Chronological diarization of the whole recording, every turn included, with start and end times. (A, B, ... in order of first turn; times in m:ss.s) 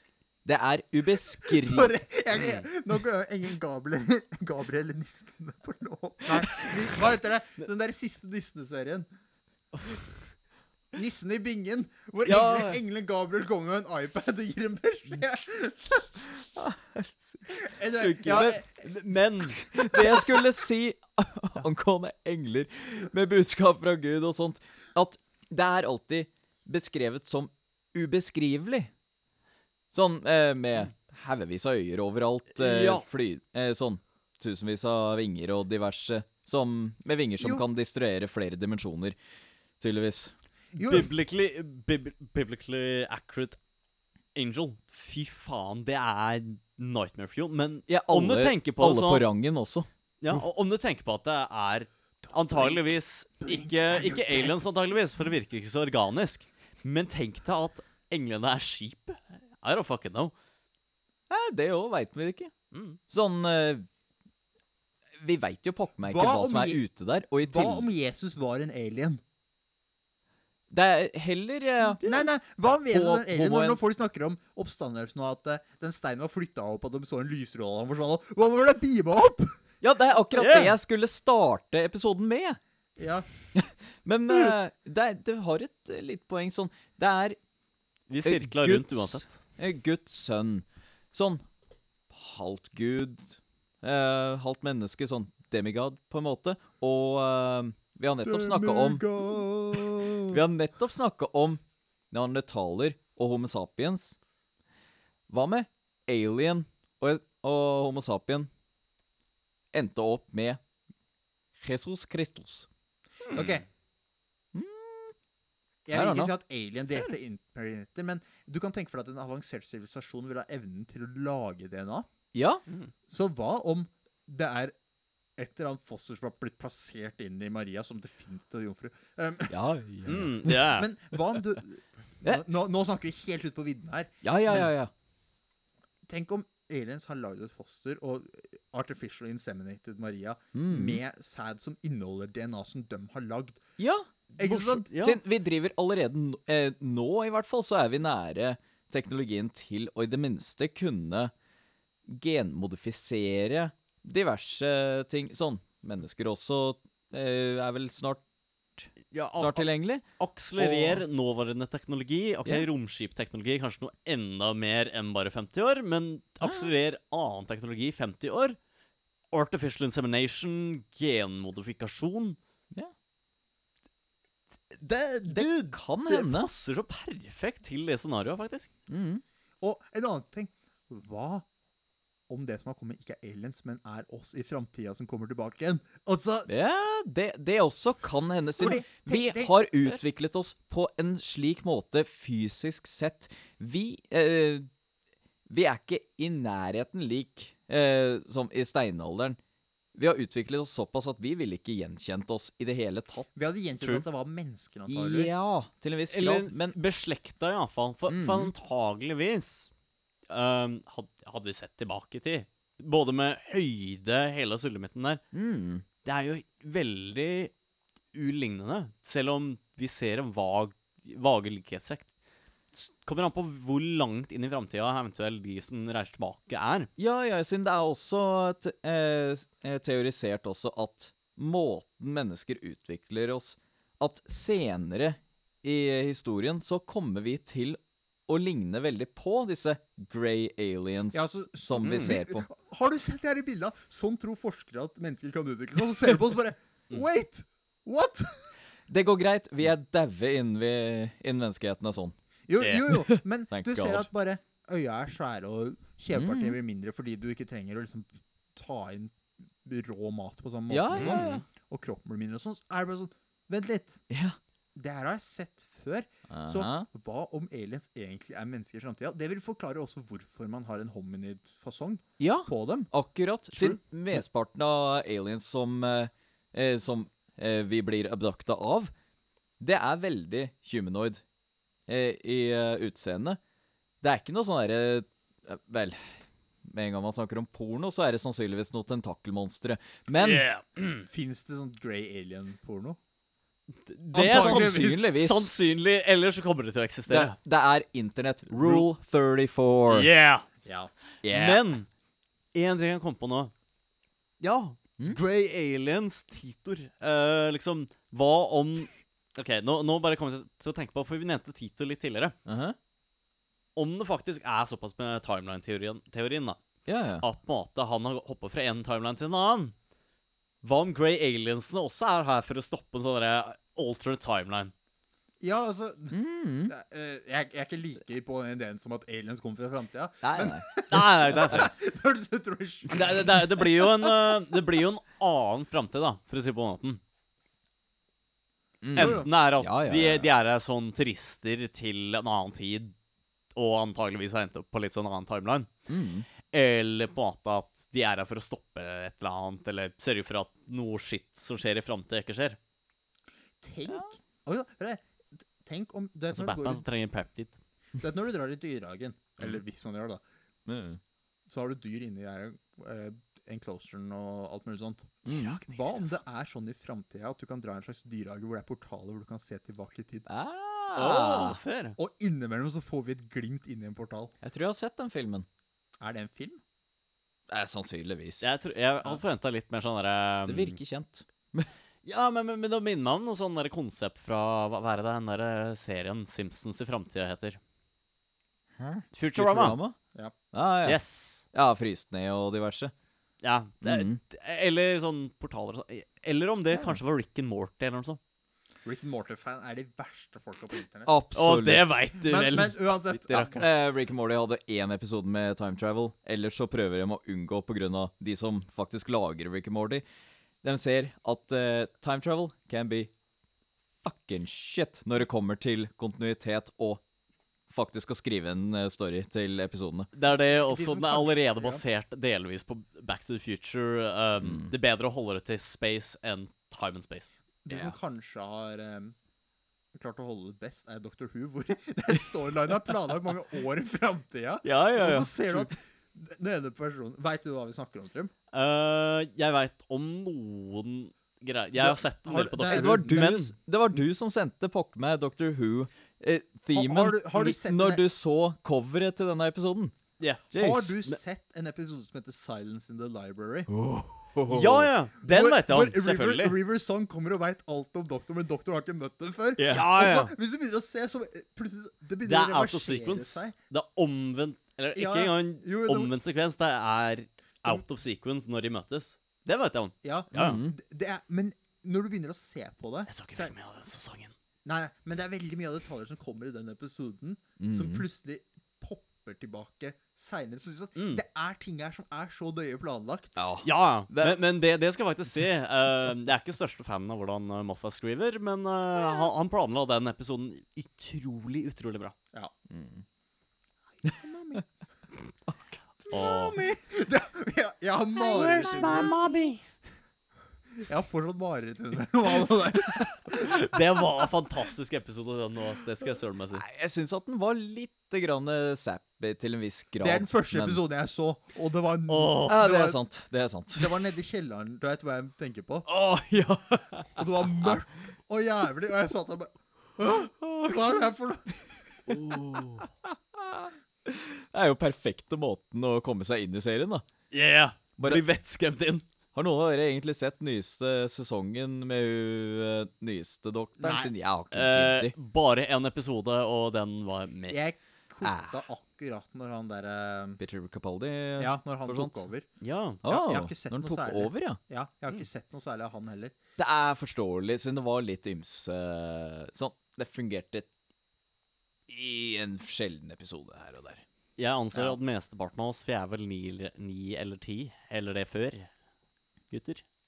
0:00.4-0:01.9 A
0:01.3-0:09.1 B
0:10.9-0:16.1 B
0:12.3-0:12.8 C
0:12.3-0:12.6 A
0:16.4-0:18.6 A
0:17.5-0:18.8 B
0:18.3-0:20.4 C
0:19.6-0:28.9 A
0:29.9-0:39.2 A
0:32.5-0:33.0 C
0:37.4-0:37.6 B
0:39.8-0:40.3 A
0:40.7-0:43.6 C
0:40.8-0:41.1 B
0:44.3-0:49.3 C
0:47.9-0:50.4 A
0:50.2-1:00.3 C
0:52.5-0:52.9 B
0:53.4-0:54.5 B
1:01.3-1:02.5 A
1:02.7-1:03.0 C
1:03.1-1:03.9 A
1:05.2-1:07.9 A
1:06.0-1:06.8 B
1:07.4-1:09.2 B
1:10.7-1:12.0 A
1:12.0-1:12.3 C
1:12.0-1:19.6 B
1:12.9-1:13.8 A
1:19.8-1:22.6 A
1:20.4-1:20.7 C
1:23.0-1:23.3 B
1:23.5-1:27.4 A
1:28.1-1:29.4 C
1:28.2-1:31.4 A
1:32.1-1:44.2 A
1:38.2-1:40.4 B
1:45.3-1:48.5 A
1:49.7-1:50.6 A
1:51.6-1:52.7 A
1:53.3-1:53.6 C
1:53.3-1:53.6 B
1:54.5-1:55.1 A
1:55.8-2:02.0 B
1:55.9-1:56.3 A
2:02.3-2:02.6 A
2:03.1-2:04.7 B
2:05.4-2:14.7 B
2:09.5-2:10.6 A
2:10.0-2:10.9 C
2:14.2-2:14.9 A
2:16.1-2:23.6 B
2:20.5-2:21.0 A
2:23.8-2:24.1 A
2:24.3-2:25.2 C
2:24.4-2:24.9 B
2:25.0-2:31.3 A
2:32.1-2:38.2 A
2:38.8-2:40.0 A
2:39.1-2:39.7 C
2:40.2-2:48.6 C
2:40.6-2:41.0 A
2:46.4-2:46.7 A
2:49.3-2:52.4 C
2:55.0-2:55.5 C
2:55.2-2:56.5 A
2:56.1-2:58.7 C
2:58.9-2:59.2 A
2:59.6-3:01.4 B
3:02.3-3:06.5 B
3:06.5-3:14.7 A
3:08.6-3:09.5 B
3:15.5-3:19.4 A
3:19.9-3:23.3 A
3:23.3-3:25.3 B
3:24.9-3:26.8 A
3:26.1-3:29.7 C
3:28.1-3:28.5 A
3:30.3-3:35.2 C
3:35.3-3:35.8 A
3:36.0-3:37.5 C
3:38.1-3:42.1 C
3:42.7-3:46.9 C
3:47.0-4:02.4 A
4:01.1-4:08.5 B
4:01.8-4:02.1 C
4:08.9-4:12.1 A
4:12.5-4:24.0 B
4:12.8-4:14.1 A
4:16.1-4:16.6 A
4:20.7-4:21.4 A
4:20.9-4:21.4 C
4:24.1-4:24.4 A
4:24.7-4:32.9 B
4:26.3-4:26.8 A
4:32.2-4:38.9 A
4:33.5-4:33.8 C
4:39.6-4:41.2 A
4:41.9-4:43.4 A
4:44.0-4:50.4 A
4:50.2-4:51.1 C
4:51.1-4:53.0 B
4:53.8-4:57.3 C
4:54.1-4:55.0 B
4:54.2-4:55.5 A
4:57.1-5:00.1 A
4:58.5-4:58.9 C
4:59.9-5:00.5 C
5:00.6-5:00.9 B
5:01.2-5:01.6 A
5:01.3-5:01.9 C
5:02.5-5:03.5 C
5:04.4-5:12.4 C
5:12.4-5:12.8 A
5:13.8-5:16.6 C
5:16.8-5:17.2 A
5:17.2-5:19.7 C
5:20.6-5:24.7 C
5:25.4-5:33.2 B
5:26.1-5:26.7 A
5:30.2-5:30.7 A
5:30.9-5:31.7 C
5:32.9-5:37.0 C
5:38.8-5:40.3 A
5:38.9-5:39.3 B
5:38.9-5:42.9 C
5:43.5-5:45.7 C
5:45.9-5:46.3 A
5:46.4-5:52.6 C
5:53.6-5:56.8 B
5:56.3-5:57.6 C
5:58.0-6:00.2 B
6:00.6-6:01.0 A
6:01.5-6:10.3 B
6:05.3-6:05.6 A
6:05.3-6:06.2 C
6:10.3-6:11.6 A
6:10.9-6:12.0 C
6:12.0-6:14.3 B
6:14.4-6:15.4 A
6:16.0-6:16.6 B
6:17.5-6:18.4 A
6:18.4-6:20.8 C
6:20.5-6:21.7 A
6:22.0-6:27.6 C
6:28.8-6:30.0 A
6:29.1-6:29.8 C
6:30.5-6:31.0 A
6:30.8-6:31.4 C
6:31.5-6:32.9 A
6:33.4-6:38.2 C
6:33.8-6:34.2 A
6:36.7-6:37.0 A
6:38.8-6:41.1 B
6:41.0-6:42.0 A
6:41.3-6:43.7 C
6:42.2-6:43.6 B
6:43.6-6:50.0 A
6:50.6-6:53.1 A
6:54.0-6:57.0 A
6:57.7-7:00.1 A
7:00.1-7:07.3 C
7:00.5-7:01.8 B
7:04.4-7:04.7 A
7:07.6-7:09.1 B
7:07.7-7:08.0 A
7:09.9-7:18.3 B
7:14.6-7:15.7 A
7:18.5-7:23.5 C
7:21.8-7:23.4 B
7:22.6-7:29.9 A
7:26.7-7:28.0 B
7:30.5-7:31.0 A
7:30.5-7:33.7 B
7:33.7-7:34.9 A
7:34.5-7:43.5 B
7:34.5-7:36.6 C
7:39.6-7:40.0 A
7:39.7-7:40.3 C
7:42.2-7:50.6 C
7:44.9-7:46.1 B
7:50.0-7:53.5 B
7:50.3-7:50.7 A
7:53.1-7:54.3 C
7:54.6-8:03.4 B
7:57.6-7:58.0 A
8:00.9-8:01.2 C
8:03.4-8:04.4 A
8:03.6-8:12.1 C
8:12.7-8:13.0 A
8:14.0-8:14.6 B
8:15.5-8:16.1 A
8:16.1-8:16.6 C
8:16.1-8:19.2 B
8:18.2-8:19.6 C
8:18.6-8:19.1 A
8:20.8-8:23.6 B
8:23.3-8:26.6 C
8:26.6-8:30.8 A
8:30.0-8:33.0 B
8:32.1-8:32.6 C
8:32.5-8:33.9 A
8:33.7-8:35.9 B
8:35.9-8:37.8 A
8:37.1-8:42.2 B
8:42.1-8:47.0 A
8:47.3-8:49.0 C
8:48.0-8:48.2 A
8:49.3-8:55.1 A
8:53.8-8:54.1 B
8:54.5-8:57.6 C
8:57.5-9:00.4 B
8:58.2-8:58.5 A
9:00.4-9:02.2 A
9:01.4-9:02.4 B
9:02.6-9:03.0 C
9:03.0-9:06.3 B
9:03.0-9:04.6 A
9:06.6-9:10.7 A
9:11.9-9:14.0 A
9:14.4-9:18.7 C
9:19.5-9:19.8 C